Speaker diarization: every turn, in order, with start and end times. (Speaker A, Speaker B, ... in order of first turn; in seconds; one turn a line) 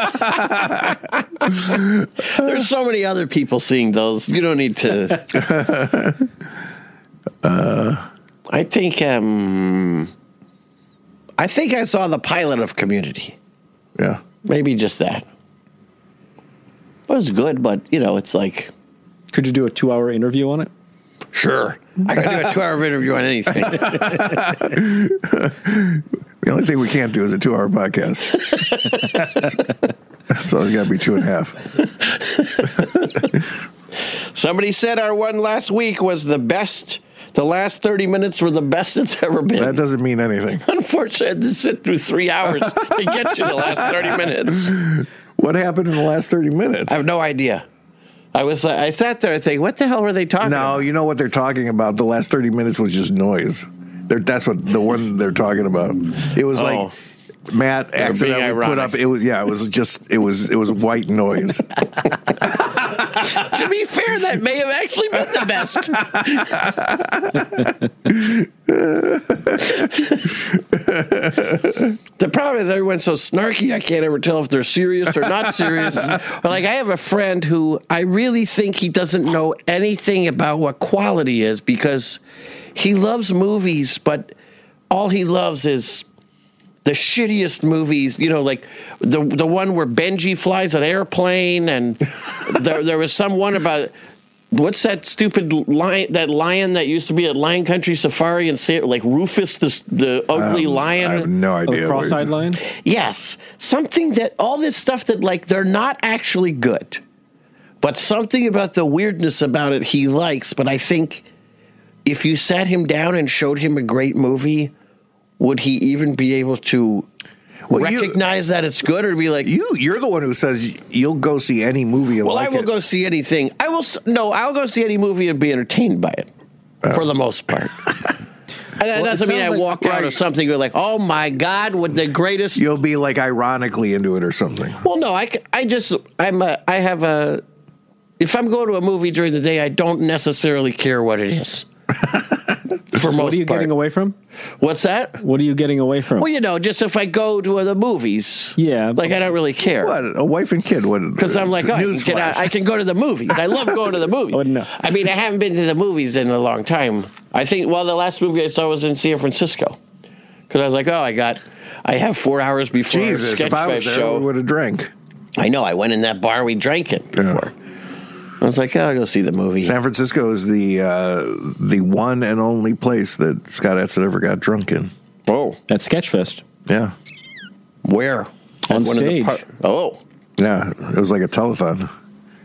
Speaker A: 0.2-0.8
Speaker B: 1.5-5.4
Speaker A: 5.3-6.3
Speaker A: 7.4-8.1
Speaker B: 8.5-10.1
Speaker B: 11.4-13.4
Speaker A: 14.0-14.2
Speaker B: 14.4-15.3
Speaker B: 17.1-18.7
Speaker C: 19.3-20.7
Speaker B: 21.3-24.3
Speaker A: 24.0-28.4
Speaker A: 30.3-31.6
Speaker B: 32.1-32.9
Speaker B: 34.3-39.8
Speaker A: 39.6-40.6
Speaker B: 40.6-44.7
Speaker A: 43.1-47.0
Speaker B: 46.9-47.6
Speaker B: 48.3-50.9
Speaker A: 50.4-56.9
Speaker B: 56.5-56.9
Speaker A: 57.5-61.7
Speaker B: 58.0-59.0
Speaker B: 62.9-66.7
Speaker A: 66.7-67.4
Speaker A: 68.1-69.8
Speaker B: 69.8-70.2
Speaker A: 70.7-71.9
Speaker B: 72.2-82.2
Speaker B: 82.8-84.3
Speaker B: 84.9-86.0
Speaker B: 86.8-93.9
Speaker B: 94.5-101.3
Speaker A: 100.3-102.4
Speaker C: 101.7-102.6
Speaker B: 102.7-107.0
Speaker B: 107.8-111.3
Speaker B: 112.0-114.7
Speaker B: 115.4-117.1
Speaker A: 117.7-118.2
Speaker B: 117.7-119.5
Speaker A: 119.4-122.7
Speaker B: 122.2-126.3
Speaker B: 126.9-127.8
Speaker B: 128.8-132.7
Speaker A: 129.4-130.2
Speaker A: 132.6-134.8
Speaker B: 134.8-137.4
Speaker B: 138.2-141.7
Speaker B: 142.9-143.7
Speaker C: 143.0-144.2
Speaker B: 144.6-145.2
Speaker C: 145.2-146.3
Speaker B: 146.2-150.0
Speaker C: 148.6-149.1
Speaker A: 149.8-152.6
Speaker B: 151.2-159.8
Speaker C: 154.3-154.7
Speaker B: 160.5-164.3
Speaker A: 162.9-164.9
Speaker B: 165.4-167.5
Speaker A: 167.1-167.4
Speaker B: 168.4-169.8
Speaker A: 169.6-174.9
Speaker B: 175.3-175.6
Speaker C: 175.7-176.4
Speaker A: 176.7-176.9
Speaker B: 177.8-180.0
Speaker C: 178.7-179.4
Speaker A: 180.4-181.9